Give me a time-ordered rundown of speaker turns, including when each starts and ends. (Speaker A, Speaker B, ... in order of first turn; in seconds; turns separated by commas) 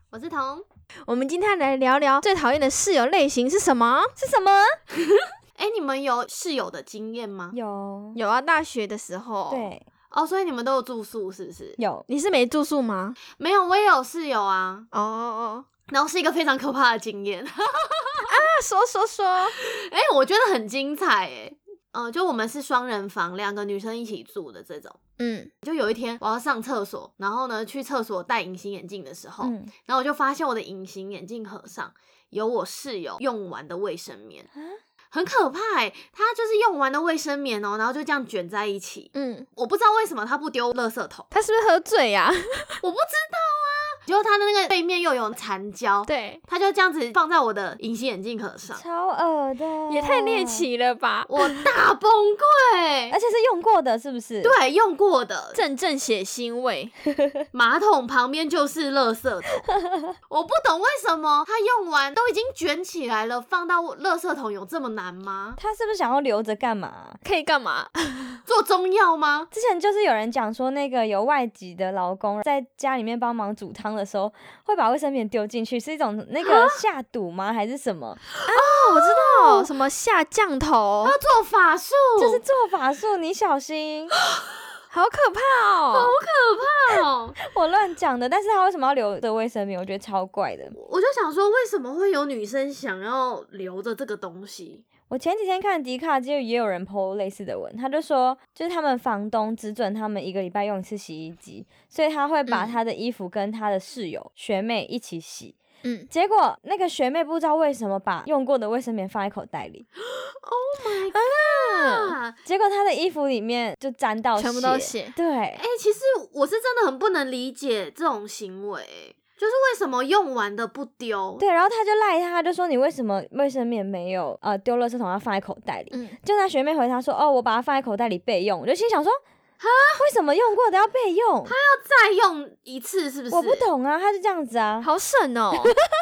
Speaker A: 0.1-0.6, Speaker B: 1.1-4.2, Speaker C: 4.2-4.8, Speaker A: 5.6-7.6, Speaker C: 7.5-8.2, Speaker B: 8.2-9.7, Speaker C: 9.5-9.8, Speaker A: 10.1-11.8, Speaker C: 11.8-12.1, Speaker B: 12.1-13.2, Speaker A: 13.4-14.9, Speaker B: 14.9-15.7, Speaker A: 15.9-18.4, Speaker B: 18.3-19.6, Speaker A: 19.6-25.0, Speaker B: 25.2-25.5, Speaker A: 25.6-34.5, Speaker C: 29.4-29.7, Speaker A: 35.1-41.3, Speaker B: 39.1-39.5, Speaker B: 41.3-42.8, Speaker A: 42.8-48.8, Speaker B: 46.1-46.4, Speaker C: 48.8-50.6, Speaker B: 49.9-51.3, Speaker A: 51.3-53.2, Speaker C: 53.1-54.5, Speaker A: 54.4-55.6, Speaker B: 55.5-56.9, Speaker C: 57.1-57.4, Speaker A: 57.5-59.6, Speaker C: 59.6-60.2, Speaker A: 60.3-65.6, Speaker C: 65.6-67.2, Speaker B: 67.2-68.4, Speaker A: 68.5-69.5, Speaker C: 69.5-78.7, Speaker A: 76.4-76.8, Speaker B: 78.5-81.2, Speaker A: 78.6-79.7, Speaker A: 81.0-82.4, Speaker C: 82.2-84.1, Speaker B: 84.9-86.1, Speaker A: 85.9-87.4, Speaker C: 87.4-90.8, Speaker A: 90.8-94.8, Speaker C: 95.1-105.6, Speaker B: 105.8-106.1, Speaker C: 106.1-109.9, Speaker A: 110.4-112.4, Speaker B: 111.1-112.2, Speaker C: 112.5-115.6, Speaker B: 114.4-115.2, Speaker A: 115.6-121.4, Speaker C: 121.4-129.2, Speaker B: 125.9-126.2, Speaker A: 129.6-130.0, Speaker C: 130.0-131.5, Speaker A: 131.5-133.7, Speaker C: 133.3-134.9, Speaker B: 134.8-135.8